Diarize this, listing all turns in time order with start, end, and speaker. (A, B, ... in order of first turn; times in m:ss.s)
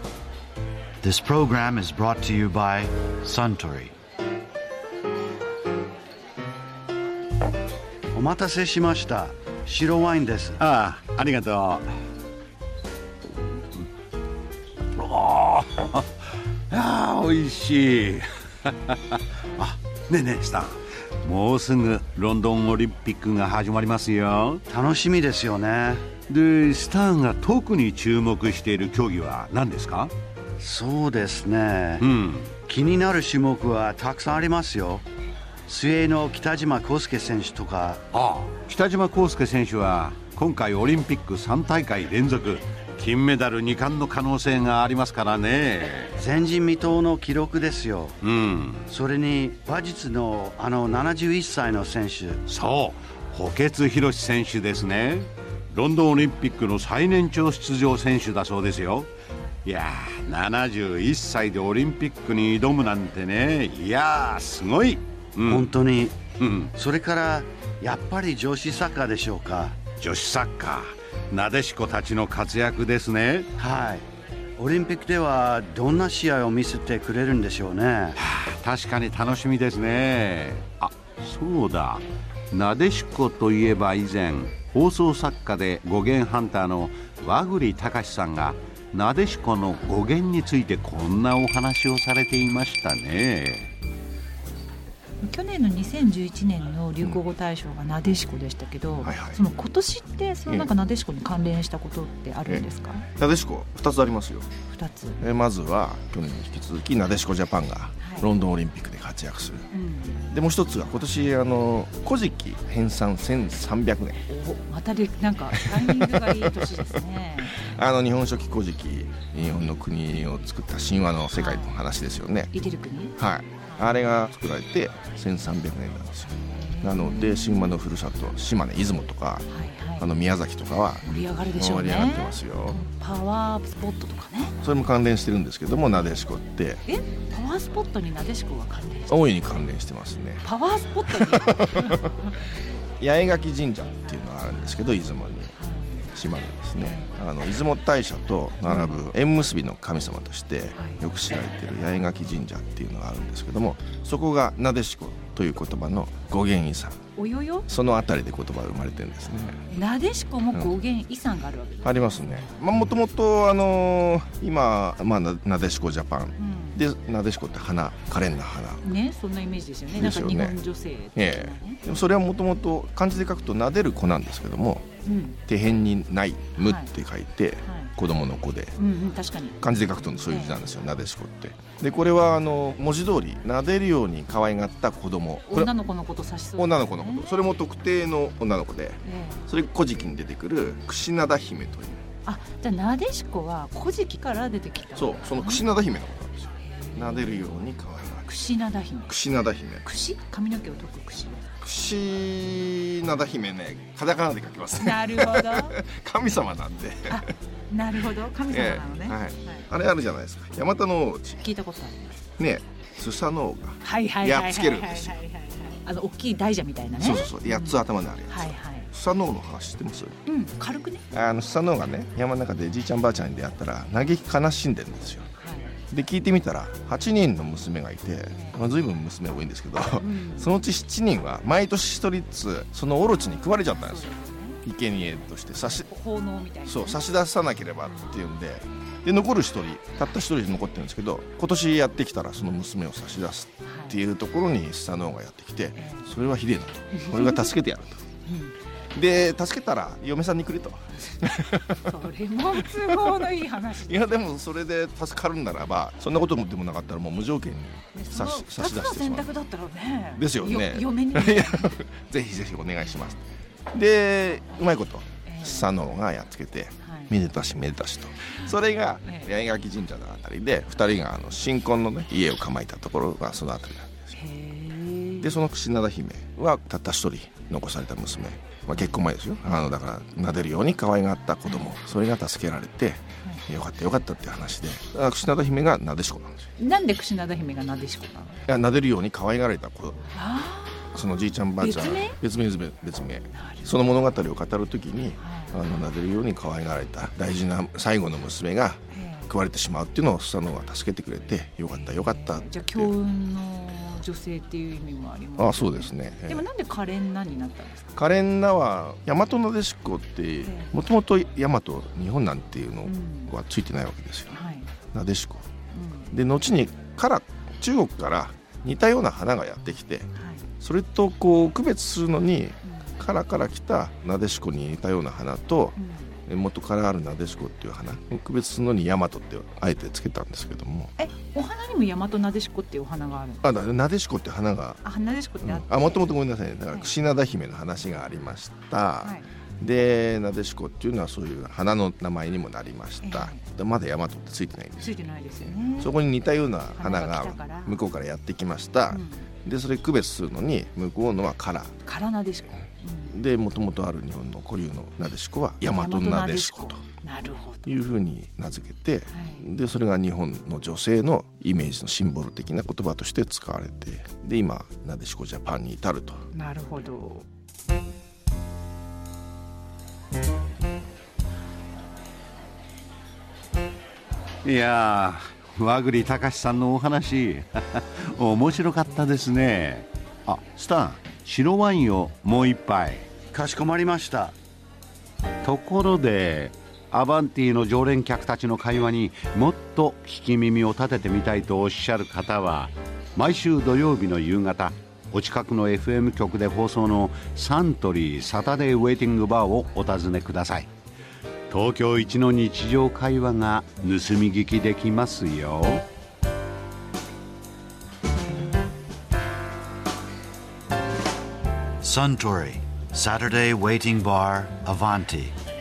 0:01.0-0:03.9 A
0:08.1-0:10.6 A
0:10.6-0:11.9 B
0:14.9-0:24.6 B
0:24.7-0:26.1 A
0:26.3-0:30.1 B
0:30.6-0:32.1 A
0:32.0-0:32.5 B
0:32.6-0:35.0 A
0:35.7-0:38.0 A
0:38.1-0:46.2 B
0:46.2-0:48.2 A
0:48.2-0:48.9 B
0:48.9-0:52.4 A
0:52.5-0:59.1 B
0:59.6-1:05.8 B
1:05.4-1:06.2 A
1:06.4-1:06.7 B
1:06.7-1:09.8 A
1:10.0-1:13.5 B
1:13.6-1:18.2 A
1:18.2-1:33.7 B
1:35.2-1:43.1 C
1:39.0-1:39.4 D
1:43.2-1:44.5 D
1:44.7-1:45.2 C
1:45.2-1:49.7 D
1:48.0-1:48.3 C
1:49.7-1:50.2 C
1:50.3-1:54.3 D
1:54.3-1:57.8 C
1:55.5-1:56.7 D
1:57.5-2:02.5 D
2:01.3-2:01.7 C
2:02.5-2:03.9 C
2:03.2-2:09.5 D
2:06.4-2:07.8 C
2:09.5-2:10.1 C
2:10.0-2:12.8 D
2:11.0-2:14.6 C
2:14.6-2:16.8 D
2:16.9-2:19.3 C
2:19.1-2:20.5 D
2:20.4-2:22.4 C
2:21.1-2:22.0 D
2:23.0-2:37.0 D
2:25.6-2:26.0 C
2:26.8-2:27.1 C
2:28.7-2:29.0 C
2:30.8-2:31.1 C
2:37.2-2:37.8 C
2:37.7-2:39.6 D
2:39.7-2:42.5 C
2:41.8-2:48.8 D
2:46.4-2:46.8 C
2:48.8-2:51.8 C
2:50.0-2:50.6 D
2:51.2-2:54.9 D
2:55.0-2:55.4 C
2:55.5-2:58.8 D
2:56.6-2:56.9 C
2:57.6-2:57.9 C
2:58.8-3:00.6 C
2:59.6-3:05.7 D
3:05.5-3:07.4 C
3:06.6-3:12.0 D
3:09.0-3:09.5 C
3:12.2-3:15.6 C
3:15.0-3:18.3 D
3:16.6-3:17.5 C
3:18.3-3:19.2 C
3:19.1-3:19.9 D
3:19.8-3:21.5 C
3:21.6-3:27.2 D
3:24.7-3:25.8 C
3:27.1-3:29.7 C
3:28.5-3:31.4 D
3:31.4-3:32.3 C
3:32.4-3:35.2 D
3:33.8-3:38.9 C
3:37.0-3:40.2 D
3:40.3-3:41.1 C
3:41.1-3:45.3 D
3:45.4-3:45.8 C
3:45.9-3:55.9 D
3:48.3-3:48.6 C
3:49.9-3:50.5 C
3:53.0-3:54.6 C
3:55.6-3:57.0 C
3:56.7-4:08.1 D
4:03.7-4:04.0 C
4:05.8-4:06.2 C
4:06.9-4:07.6 C
4:08.3-4:08.6 C
4:08.9-4:11.9 D
4:11.2-4:14.0 C
4:12.5-4:19.3 D
4:17.9-4:21.8 C
4:20.2-4:34.1 D
4:25.3-4:25.7 C
4:26.8-4:27.1 C
4:28.4-4:29.3 C
4:34.2-4:35.4 C
4:35.2-4:46.5 D
4:41.5-4:41.7 C
4:46.6-4:48.4 C
4:48.5-4:50.1 D
4:50.1-4:52.2 C
4:50.9-5:02.9 D
4:53.3-4:53.8 C
4:55.2-4:55.6 C
4:58.9-4:59.3 C
5:01.7-5:08.0 C
5:05.4-5:06.4 D
5:08.0-5:14.4 D
5:10.4-5:10.7 C
5:12.9-5:13.3 C
5:14.3-5:14.7 C
5:14.9-5:15.5 D
5:15.7-5:16.1 C
5:16.1-5:20.1 D
5:20.2-5:20.5 C
5:20.6-5:30.9 D
5:25.8-5:26.2 C
5:31.0-5:33.5 C
5:33.4-5:34.8 D
5:34.8-5:36.1 C
5:35.4-5:45.0 D
5:39.0-5:39.3 C
5:43.0-5:43.4 C
5:44.8-5:45.9 C
5:45.6-5:51.7 D
5:46.8-5:47.8 C
5:48.9-5:49.3 C
5:51.8-5:53.1 C
5:53.1-5:56.8 D
5:55.6-5:57.7 C
5:57.7-6:06.3 D
5:59.1-5:59.4 C
6:06.3-6:07.2 C
6:14.4-6:23.1 B
6:23.3-6:24.4 A
6:25.4-6:40.7 B
6:41.5-6:45.8 B
6:51.8-6:55.4 A